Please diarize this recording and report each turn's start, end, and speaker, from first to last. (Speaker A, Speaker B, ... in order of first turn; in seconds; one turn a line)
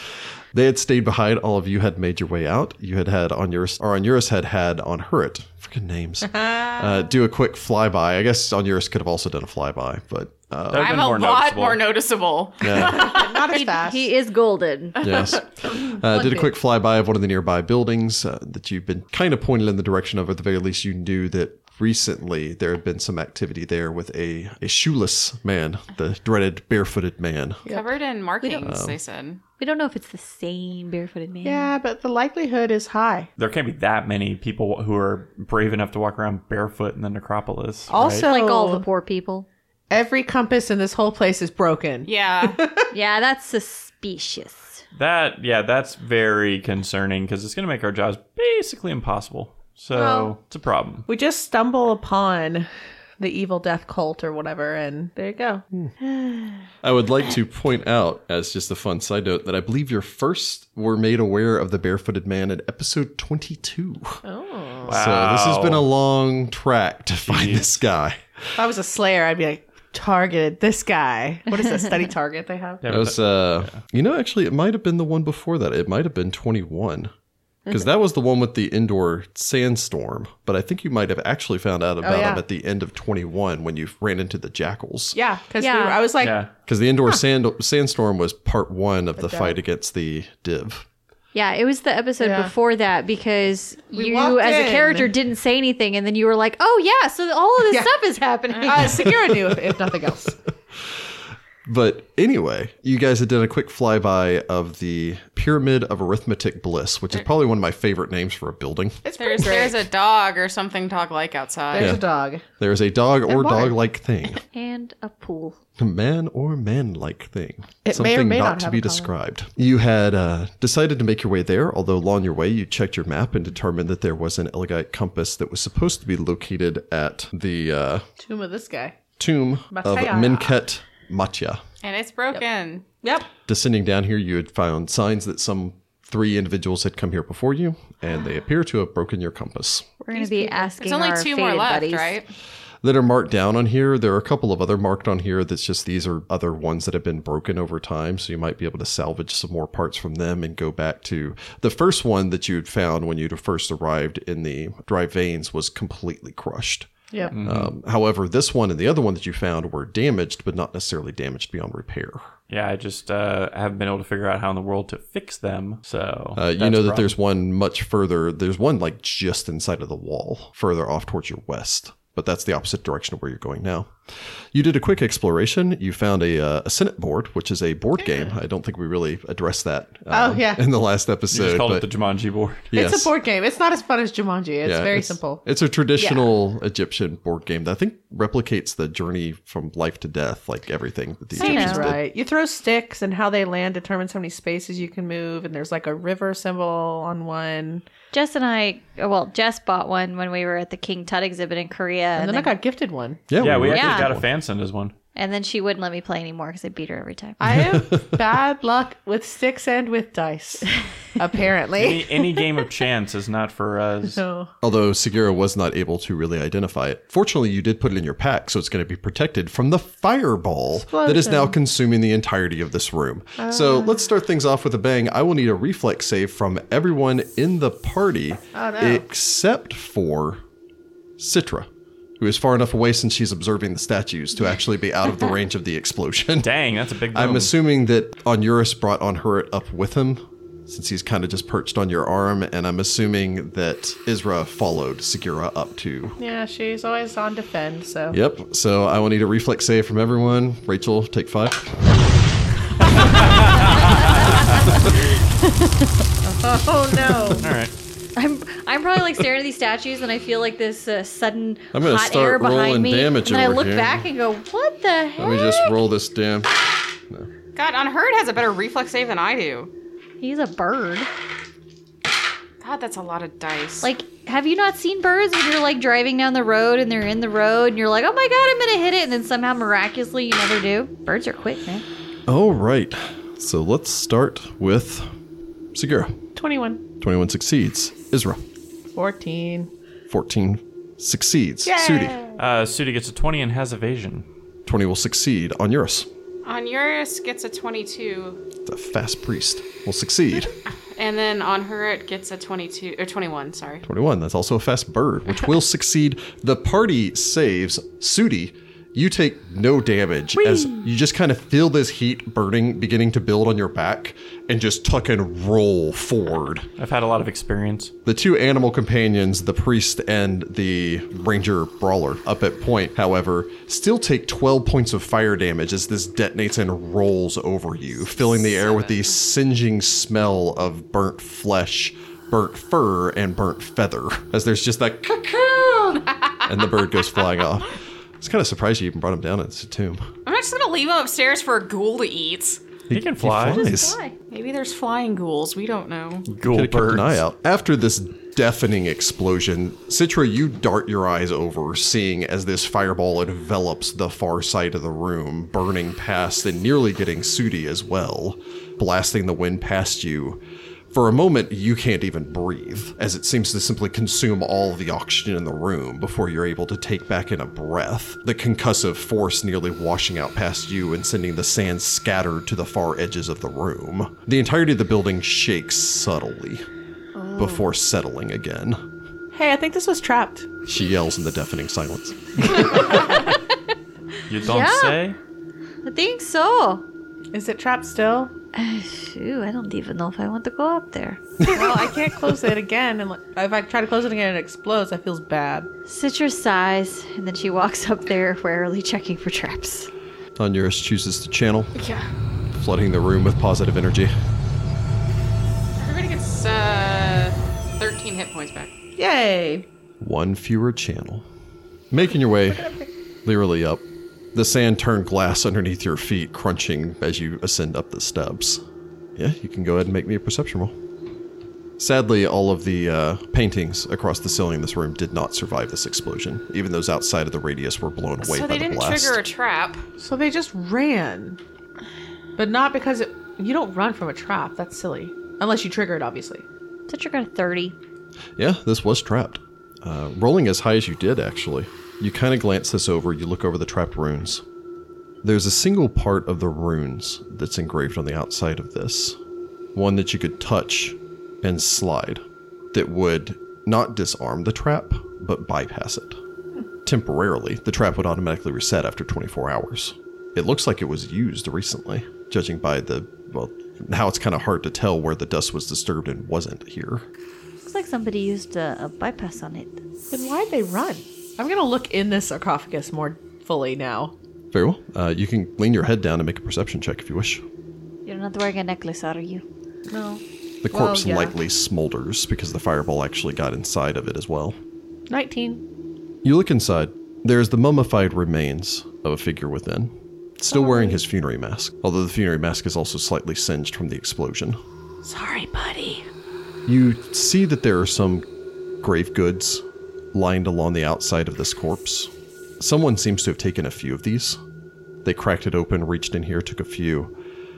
Speaker A: 0.5-11.1
Speaker B: 10.7-11.9
Speaker C: 10.8-13.7
Speaker A: 12.6-13.2
Speaker D: 12.7-14.1
Speaker E: 13.5-15.3
Speaker A: 15.0-27.6
Speaker C: 27.7-29.4
Speaker D: 27.7-27.9
Speaker E: 28.4-28.7
Speaker A: 28.6-29.0
Speaker E: 29.6-31.7
Speaker D: 31.4-33.3
Speaker B: 33.4-38.3
Speaker D: 37.9-38.9
Speaker E: 38.2-39.5
Speaker D: 39.9-42.9
Speaker C: 42.0-42.6
Speaker E: 42.9-44.8
Speaker B: 45.0-51.1
Speaker D: 50.0-50.3
Speaker D: 51.1-52.7
Speaker D: 53.2-55.6
Speaker E: 56.1-56.6
Speaker A: 56.8-64.2
Speaker D: 64.2-64.9
Speaker A: 64.8-68.2
Speaker B: 64.8-65.9
Speaker B: 67.2-67.7
Speaker D: 68.6-72.8
Speaker B: 72.8-73.8
Speaker A: 72.9-77.1
Speaker A: 77.7-85.2
Speaker D: 82.0-82.4
Speaker D: 85.2-86.5
Speaker E: 85.6-86.1
Speaker B: 86.2-86.5
Speaker A: 86.7-90.9
Speaker D: 89.2-89.6
Speaker E: 91.3-99.2
Speaker D: 92.2-92.5
Speaker D: 93.9-95.1
Speaker D: 98.6-100.4
Speaker A: 101.7-109.0
Speaker D: 109.0-109.8
Speaker C: 109.2-112.0
Speaker D: 111.7-112.4
Speaker A: 111.8-112.0
Speaker A: 112.6-114.4
Speaker D: 113.3-113.8
Speaker E: 114.5-115.6
Speaker A: 115.8-128.1
Speaker D: 117.8-119.1
Speaker D: 128.2-129.0
Speaker A: 129.2-131.6
Speaker D: 129.7-130.6
Speaker C: 131.8-132.9
Speaker D: 133.0-133.3
Speaker A: 133.5-139.9
Speaker E: 140.1-142.2
Speaker D: 140.1-140.7
Speaker C: 140.8-142.3
Speaker A: 142.8-156.9
Speaker B: 157.3-157.7
Speaker A: 157.4-162.3
Speaker B: 162.5-167.2
Speaker A: 166.4-173.9
Speaker A: 174.5-181.9
Speaker D: 180.1-180.6
Speaker B: 181.3-182.7
Speaker A: 182.7-183.1
Speaker D: 182.7-185.4
Speaker A: 184.6-192.1
Speaker D: 186.0-186.3
Speaker D: 191.3-197.8
Speaker E: 191.4-191.8
Speaker E: 198.1-202.5
Speaker D: 202.2-203.2
Speaker A: 203.3-204.3
Speaker B: 203.4-204.9
Speaker E: 203.7-204.1
Speaker E: 205.2-207.4
Speaker A: 207.4-208.3
Speaker D: 207.4-212.4
Speaker B: 211.8-214.2
Speaker D: 214.1-214.5
Speaker A: 214.6-230.4
Speaker D: 220.8-221.6
Speaker D: 223.4-224.0
Speaker D: 228.5-229.0
Speaker A: 231.2-236.5
Speaker B: 236.4-237.5
Speaker A: 237.1-246.2
Speaker D: 246.2-248.2
Speaker A: 248.1-251.9
Speaker A: 252.8-253.4
Speaker E: 254.2-255.9
Speaker D: 256.2-257.5
Speaker A: 257.1-257.4
Speaker B: 257.4-257.7
Speaker E: 258.2-265.8
Speaker A: 261.7-264.1
Speaker A: 265.2-267.3
Speaker C: 267.6-269.7
Speaker E: 270.2-271.1
Speaker C: 272.6-273.9
Speaker E: 273.8-281.9
Speaker A: 282.3-285.1
Speaker A: 285.8-286.2
Speaker D: 286.4-286.8
Speaker A: 287.0-288.4
Speaker D: 288.9-289.7
Speaker A: 290.1-292.2
Speaker D: 291.6-292.4
Speaker B: 292.4-294.3
Speaker A: 294.7-296.1
Speaker C: 296.4-298.4
Speaker A: 298.7-300.5
Speaker C: 300.9-303.9
Speaker A: 303.8-316.7
Speaker D: 310.4-310.9
Speaker B: 316.8-317.9
Speaker A: 318.1-340.1
Speaker C: 328.1-329.1
Speaker C: 340.3-342.6
Speaker A: 342.9-344.0
Speaker B: 342.9-343.7
Speaker E: 343.6-344.1
Speaker C: 344.3-346.3
Speaker B: 346.3-347.2
Speaker A: 346.4-360.4
Speaker A: 360.9-376.6
Speaker E: 377.1-377.6
Speaker A: 377.4-378.8
Speaker D: 379.3-380.5
Speaker A: 380.7-383.0
Speaker E: 382.8-383.4
Speaker B: 384.3-385.2
Speaker E: 384.4-385.0
Speaker E: 385.8-386.8
Speaker D: 387.3-388.3
Speaker E: 388.6-391.6
Speaker D: 391.5-395.7
Speaker E: 395.9-399.9
Speaker A: 400.4-401.8
Speaker C: 401.8-402.1
Speaker A: 402.5-404.1
Speaker C: 405.8-408.7
Speaker D: 409.0-409.7
Speaker A: 410.0-411.3
Speaker A: 411.9-412.7
Speaker D: 412.5-412.9
Speaker A: 413.2-418.6
Speaker A: 419.2-420.8
Speaker A: 421.8-429.2
Speaker C: 428.2-429.9
Speaker D: 430.0-431.4
Speaker D: 432.4-436.4
Speaker E: 436.9-437.8
Speaker A: 438.4-444.4
Speaker A: 445.2-449.2
Speaker A: 449.8-452.2
Speaker A: 452.7-456.2
Speaker A: 456.9-467.1
Speaker E: 467.6-469.8
Speaker D: 470.1-474.1
Speaker A: 474.5-477.4
Speaker E: 478.1-479.4
Speaker D: 479.9-481.3
Speaker A: 480.6-484.6
Speaker D: 485.1-485.6
Speaker A: 486.2-494.6
Speaker D: 490.5-491.0
Speaker D: 495.0-496.0
Speaker A: 496.7-498.2
Speaker A: 498.8-504.4
Speaker A: 505.0-507.1